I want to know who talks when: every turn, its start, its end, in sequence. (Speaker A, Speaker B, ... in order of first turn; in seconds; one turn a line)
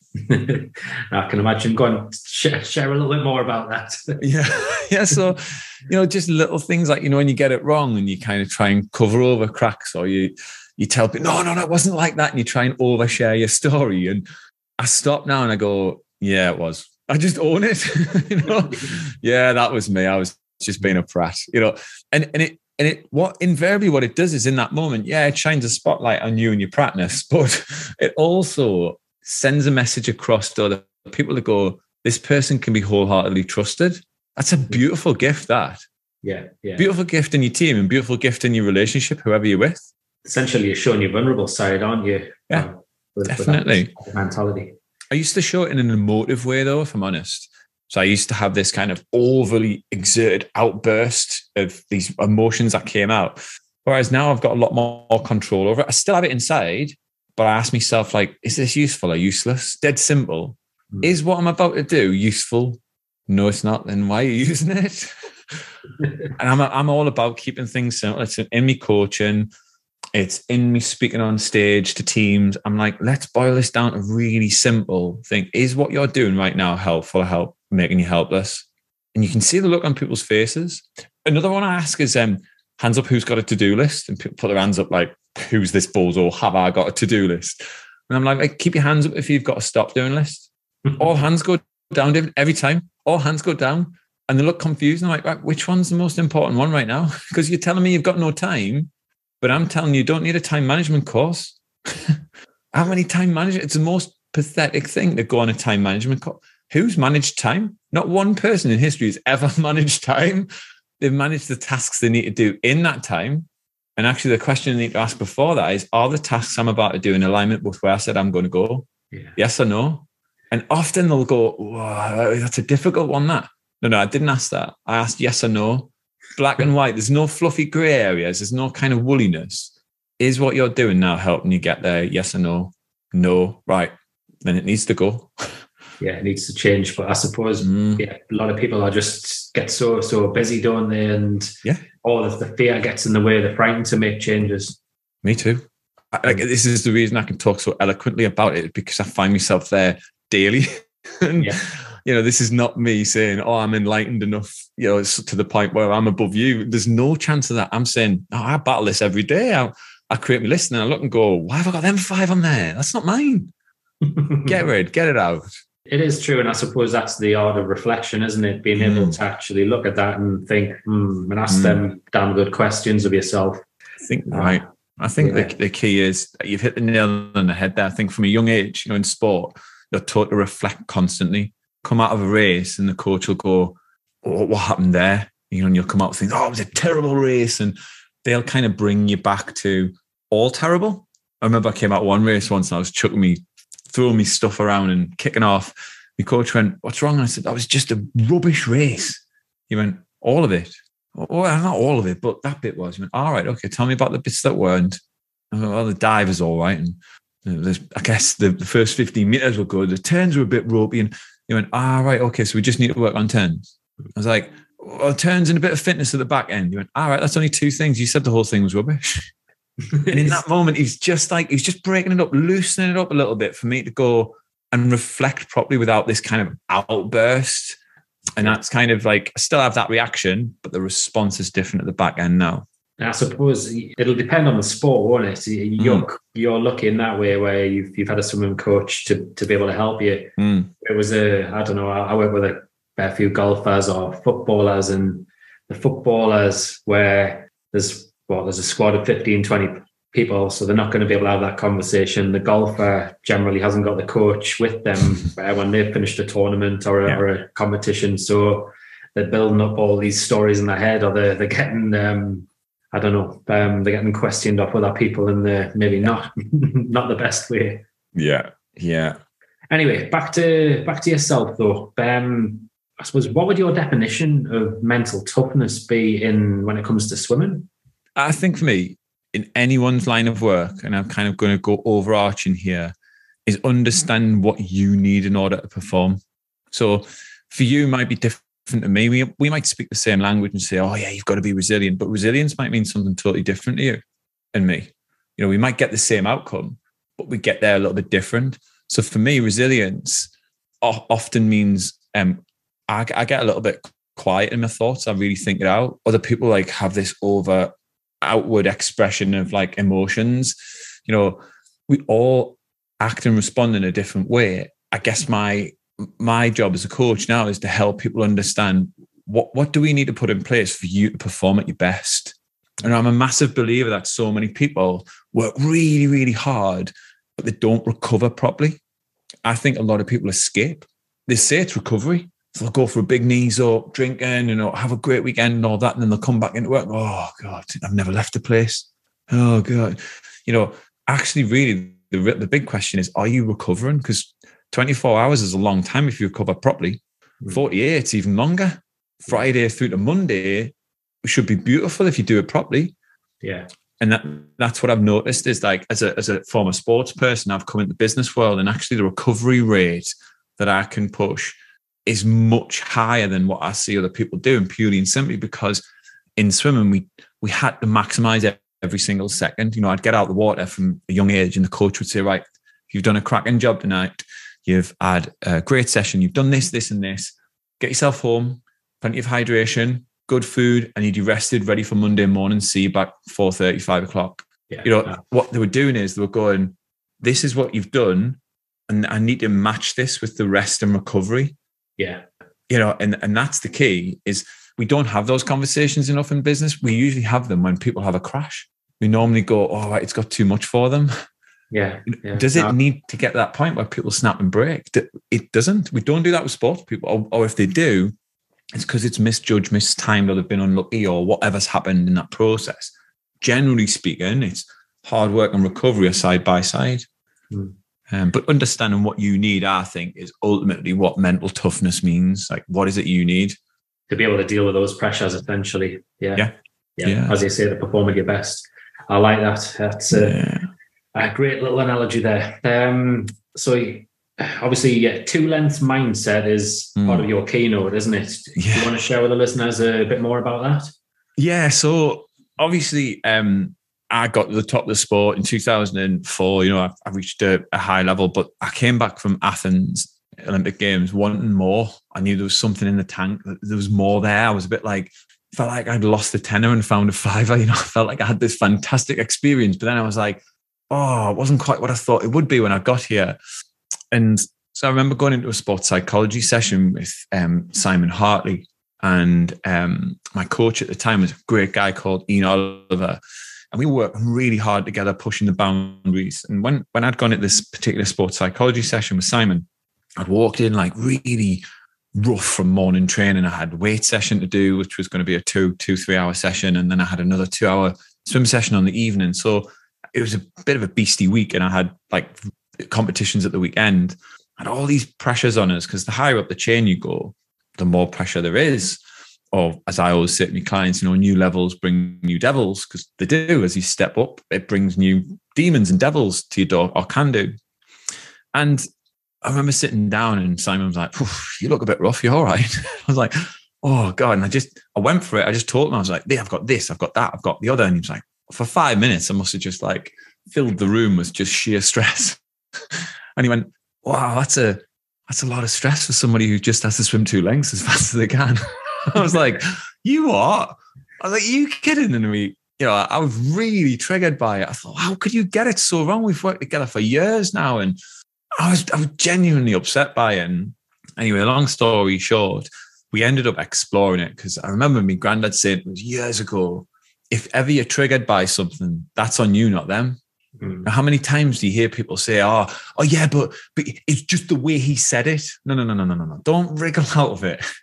Speaker A: 0.2-4.2
Speaker B: 4.2-14.2
Speaker B: 14.8-35.8
Speaker A: 36.2-36.9
Speaker B: 36.8-39.9
Speaker A: 40.2-44.8
Speaker B: 43.3-43.9
Speaker B: 45.1-65.6
Speaker B: 66.3-69.5
Speaker B: 70.1-102.2
Speaker B: 102.7-110.5
Speaker B: 111.0-135.4
Speaker A: 136.0-144.8
Speaker B: 137.6-138.0
Speaker B: 145.2-163.5
Speaker A: 164.1-164.5
Speaker B: 164.4-165.5
Speaker A: 165.9-173.7
Speaker B: 168.8-169.2
Speaker B: 171.5-171.8
Speaker B: 174.0-205.0
Speaker A: 174.3-174.6
Speaker A: 175.2-175.5
Speaker B: 205.5-219.3
Speaker A: 219.9-220.4
Speaker B: 220.1-227.8
Speaker B: 228.4-232.7
Speaker A: 233.0-267.9
Speaker B: 235.8-236.1
Speaker B: 240.4-240.7
Speaker B: 268.1-269.2
Speaker A: 269.7-277.7
Speaker B: 278.2-282.9
Speaker B: 283.5-286.2
Speaker B: 286.7-294.0
Speaker B: 294.5-310.6
Speaker B: 311.1-328.8
Speaker B: 329.4-350.7
Speaker B: 351.2-352.9
Speaker A: 353.4-353.7
Speaker B: 354.0-365.8
Speaker B: 366.4-391.6
Speaker A: 384.7-385.2
Speaker A: 392.0-392.2
Speaker B: 392.7-401.1
Speaker A: 401.7-402.8
Speaker B: 402.3-408.1
Speaker B: 408.7-417.1
Speaker B: 418.1-423.6
Speaker A: 424.1-430.4
Speaker B: 426.4-427.4
Speaker B: 430.1-430.6
Speaker A: 431.1-440.9
Speaker B: 437.0-437.3
Speaker B: 438.6-438.9
Speaker B: 441.4-463.4
Speaker B: 464.1-473.2
Speaker B: 473.7-479.7
Speaker B: 480.2-481.6
Speaker B: 482.1-499.0
Speaker B: 499.5-507.5
Speaker B: 508.6-508.9
Speaker B: 509.4-522.4
Speaker B: 522.9-538.0
Speaker B: 538.6-550.2
Speaker A: 550.6-550.9
Speaker B: 550.8-557.6